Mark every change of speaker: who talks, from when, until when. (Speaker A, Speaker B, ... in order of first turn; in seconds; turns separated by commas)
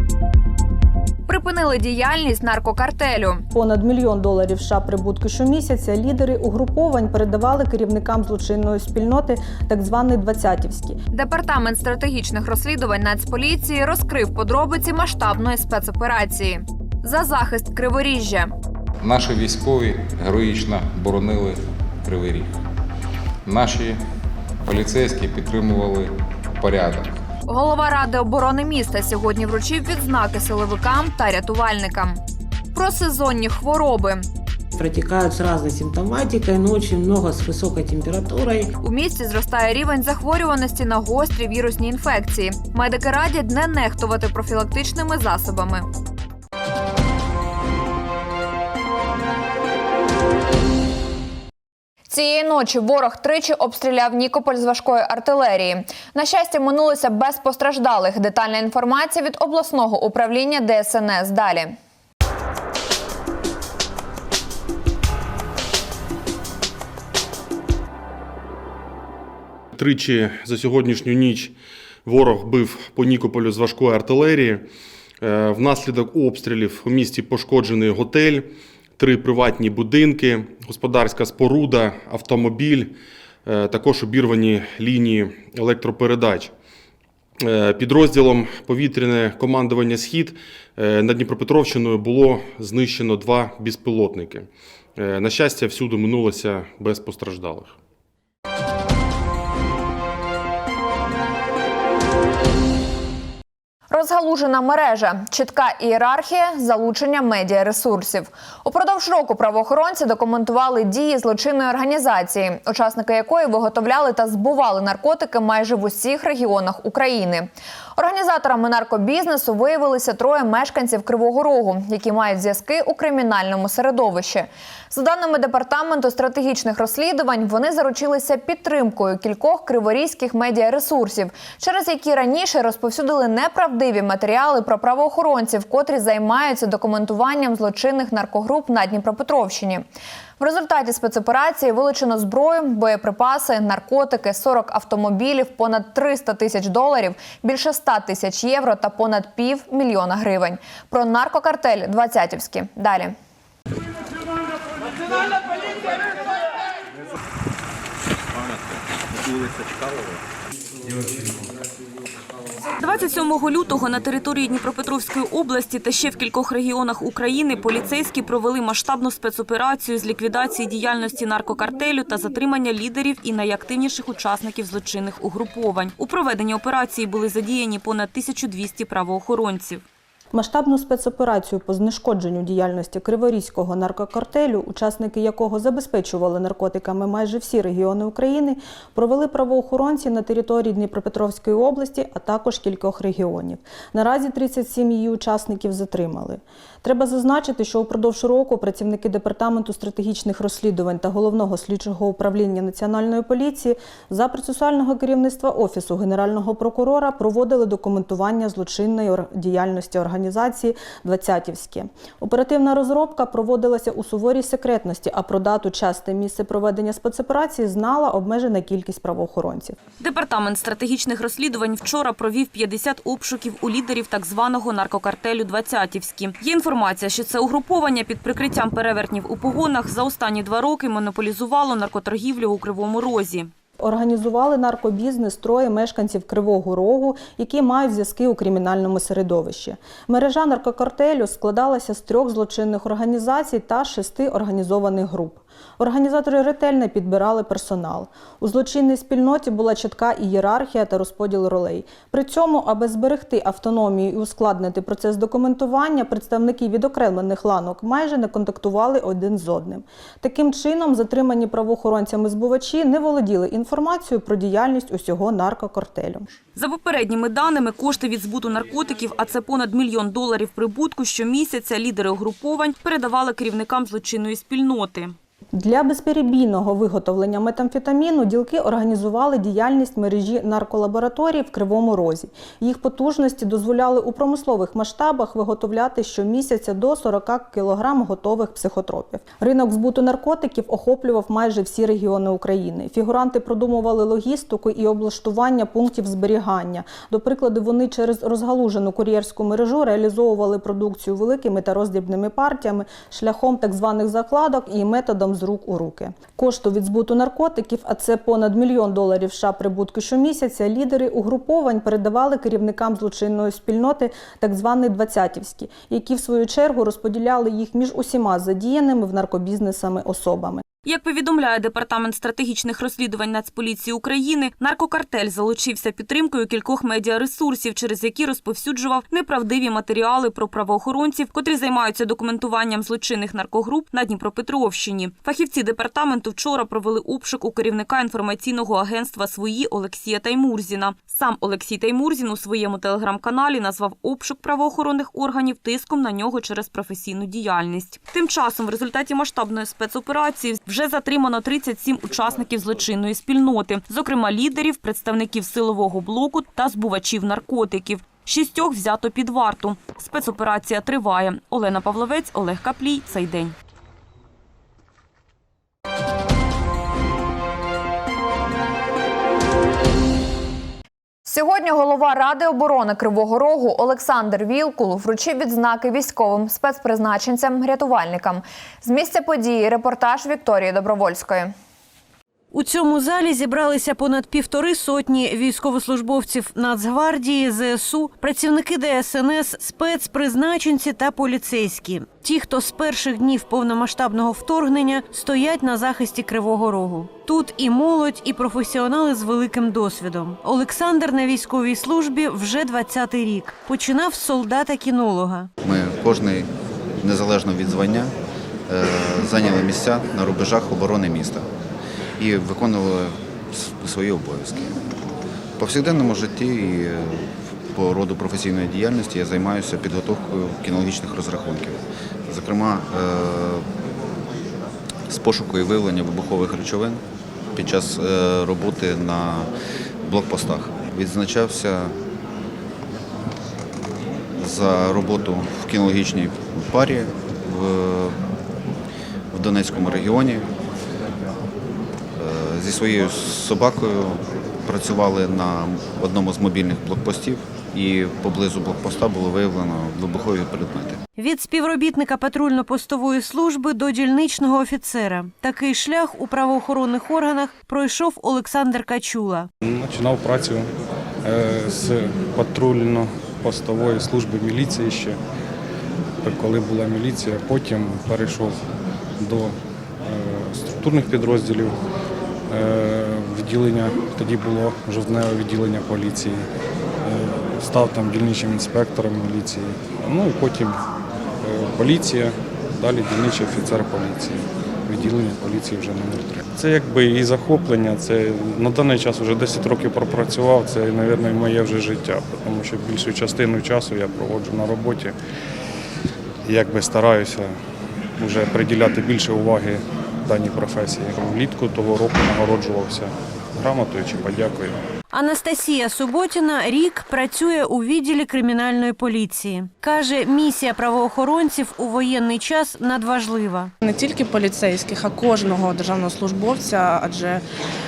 Speaker A: 1.3-3.5, Speaker B: 3.5-11.0, Speaker A: 11.1-18.5, Speaker C: 19.0-22.5, Speaker C: 23.4-24.0, Speaker C: 24.6-27.2, Speaker A: 27.5-32.2, Speaker A: 32.7-34.3, Speaker D: 34.8-38.7, Speaker A: 38.8-45.9, Speaker A: 52.1-61.8, Speaker E: 69.8-74.7, Speaker E: 75.2-86.5, Speaker E: 87.4-97.8, Speaker A: 103.9-139.9, Speaker A: 140.4-153.2, Speaker F: 162.8-179.8, Speaker B: 180.3-219.8, Speaker F: 220.0-233.5, Speaker B: 233.8-266.3, Speaker F: 266.6-275.1, Speaker B: 275.5-320.6, Speaker F: 320.9-363.5, Speaker A: 371.3-381.5, Speaker G: 382.5-405.5, Speaker H: 405.6-406.5, Speaker H: 407.0-408.1, Speaker H: 408.7-411.5, Speaker H: 412.2-414.8, Speaker H: 415.6-423.6, Speaker H: 425.1-427.0, Speaker H: 427.6-429.5, Speaker H: 430.0-432.0, Speaker H: 434.4-438.2, Speaker H: 439.3-440.5, Speaker H: 442.2-451.0, Speaker G: 451.2-459.5, Speaker I: 459.6-460.7, Speaker I: 461.2-465.2, Speaker I: 466.2-468.6, Speaker I: 469.2-471.8, Speaker I: 472.5-476.5, Speaker I: 477.0-480.8, Speaker I: 481.4-495.2, Speaker I: 496.4-497.6, Speaker I: 498.2-504.8, Speaker G: 505.1-513.7, Speaker J: 513.8-517.4